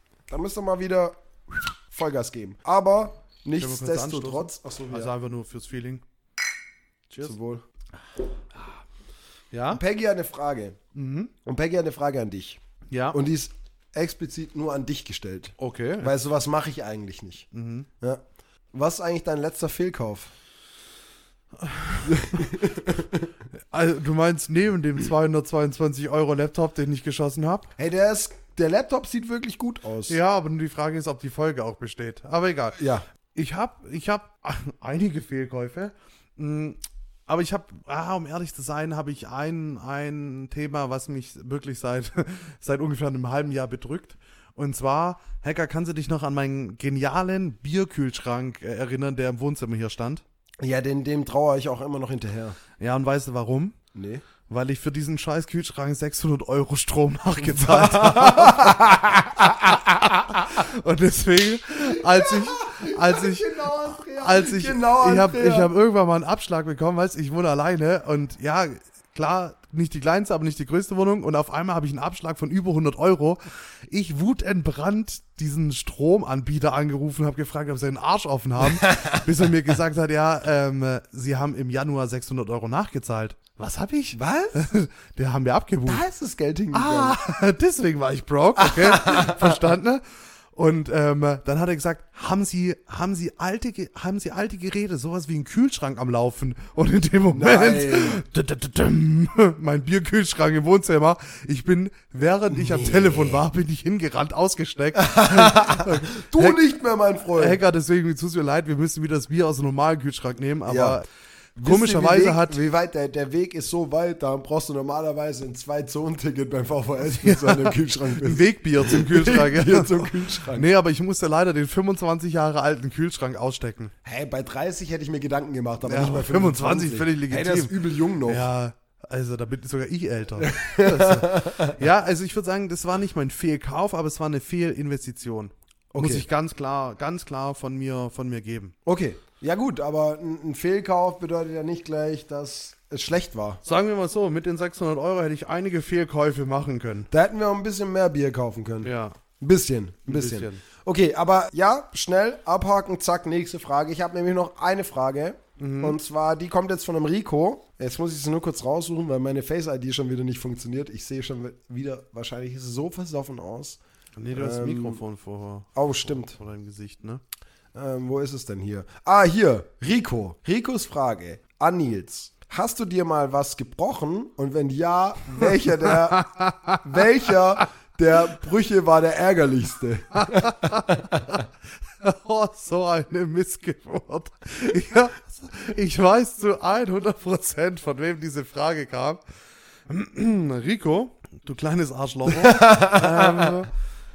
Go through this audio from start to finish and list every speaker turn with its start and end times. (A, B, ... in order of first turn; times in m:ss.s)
0:00.3-0:01.2 A
0:01.9-0:05.1 A
0:03.6-0:06.0 B
0:07.1-0:07.4 B
0:07.2-0:07.6 A
0:09.5-0:09.8 B
0:09.7-0:10.8 A
0:10.9-0:11.3 B
0:11.4-0:12.6 A
0:12.9-0:13.2 B
0:13.1-0:17.5 A
0:15.6-0:16.1 B
0:17.5-0:17.9 B
0:18.7-0:20.3 A
0:21.6-0:22.5 B
0:22.0-0:23.3 A
0:23.7-0:27.7 B
0:27.8-0:30.2 A
0:30.1-0:32.8 B
0:32.8-0:33.0 A
0:33.3-0:50.2 B
0:50.6-0:52.6 A
0:52.8-0:53.8 B
0:53.9-0:54.2 A
0:54.5-1:26.0 B
0:57.4-0:59.5 A
1:02.1-1:05.7 A
1:18.8-1:19.2 A
1:24.1-1:24.6 A
1:25.9-1:27.2 A
1:26.7-1:46.6 B
1:28.6-1:29.6 A
1:37.3-1:38.2 A
1:42.5-1:43.4 A
1:44.9-1:47.6 A
1:47.3-1:51.0 B
1:50.7-1:51.0 A
1:51.6-2:00.7 A
1:51.6-1:52.6 B
1:57.2-2:03.9 B
2:04.0-2:08.5 A
2:05.9-2:18.7 B
2:10.4-2:11.8 A
2:15.9-2:16.2 A
2:18.8-2:23.6 A
2:23.6-2:27.1 B
2:27.1-2:43.8 A
2:28.8-2:29.2 B
2:30.1-2:30.6 B
2:35.6-2:36.0 B
2:44.2-2:47.2 B
2:44.3-2:45.0 A
2:45.7-2:46.4 A
2:47.7-2:56.3 A
2:55.4-2:57.0 B
2:56.8-3:01.4 A
3:00.2-3:01.4 B
3:02.0-3:09.2 B
3:09.9-3:13.7 B
3:12.3-3:13.5 A